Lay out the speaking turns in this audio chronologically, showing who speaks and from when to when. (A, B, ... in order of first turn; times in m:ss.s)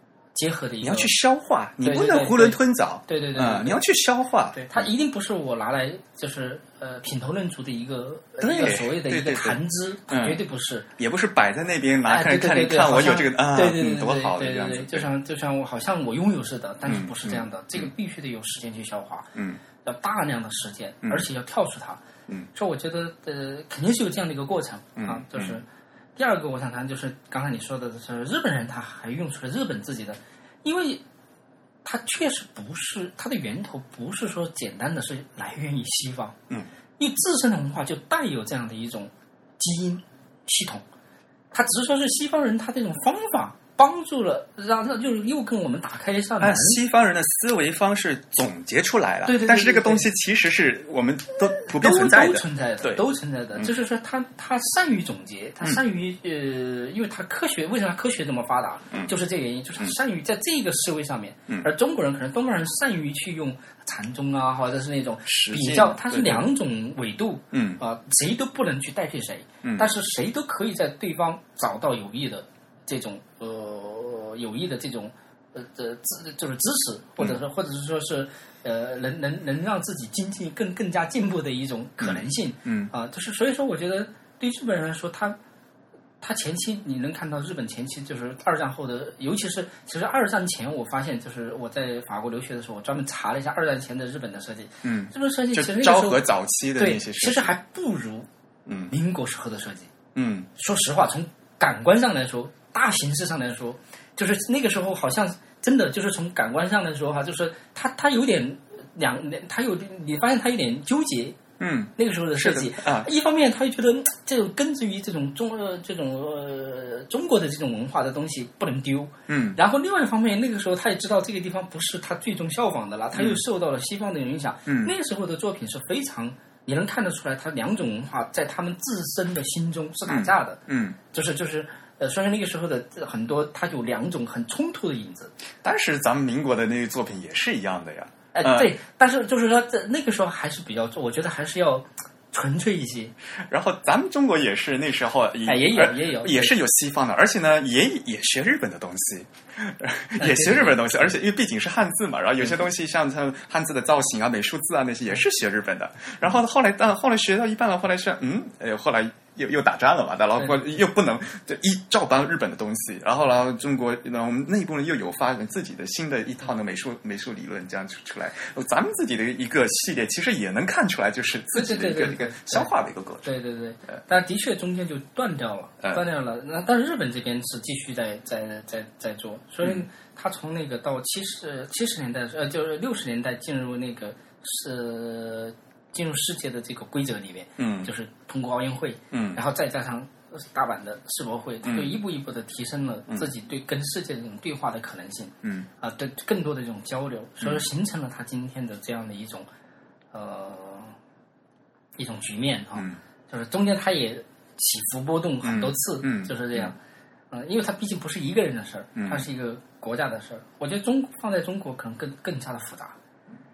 0:00.3-0:01.1 A
0:00.8-0:04.9 B
0:01.8-0:03.8 A
0:04.5-0:10.9 A
0:08.4-0:10.4 B
0:11.0-0:15.1 B
0:12.1-0:22.0 A
0:16.8-0:17.9 B
0:19.4-0:19.6 B
0:22.5-0:25.6 A
0:25.0-0:25.6 B
0:26.2-0:31.0 A
0:31.8-0:36.4 A
0:37.0-0:40.8 A
0:41.5-0:46.8 A
0:46.4-0:53.7 B
0:49.2-0:50.1 A
0:51.6-1:25.4 A
1:05.2-1:06.5 B
1:07.5-1:07.8 B
1:09.6-1:09.9 B
1:22.0-1:22.9 B
1:26.2-1:36.2 A
1:34.8-1:37.5 B
1:36.8-1:38.3 A
1:38.6-1:38.9 B
1:38.9-1:39.9 A
1:40.1-1:40.5 B
1:40.6-1:51.4 A
1:51.6-1:53.1 B
1:52.0-2:10.6 A
1:59.3-1:59.6 B
2:03.1-2:03.4 B
2:04.6-2:04.9 B
2:10.1-2:11.0 B
2:11.1-2:15.3 A
2:15.6-2:18.7 B
2:18.3-2:23.1 A
2:23.5-2:53.3 B
2:25.4-2:26.6 A
2:30.2-2:31.0 A
2:51.5-2:52.7 A
2:53.2-3:19.4 A
3:07.6-3:07.9 B
3:09.1-3:09.4 B
3:11.6-3:11.9 B
3:20.1-3:20.9 A
3:22.0-3:26.8 A
3:25.4-3:26.7 B
3:27.3-3:32.9 A
3:29.0-3:29.3 B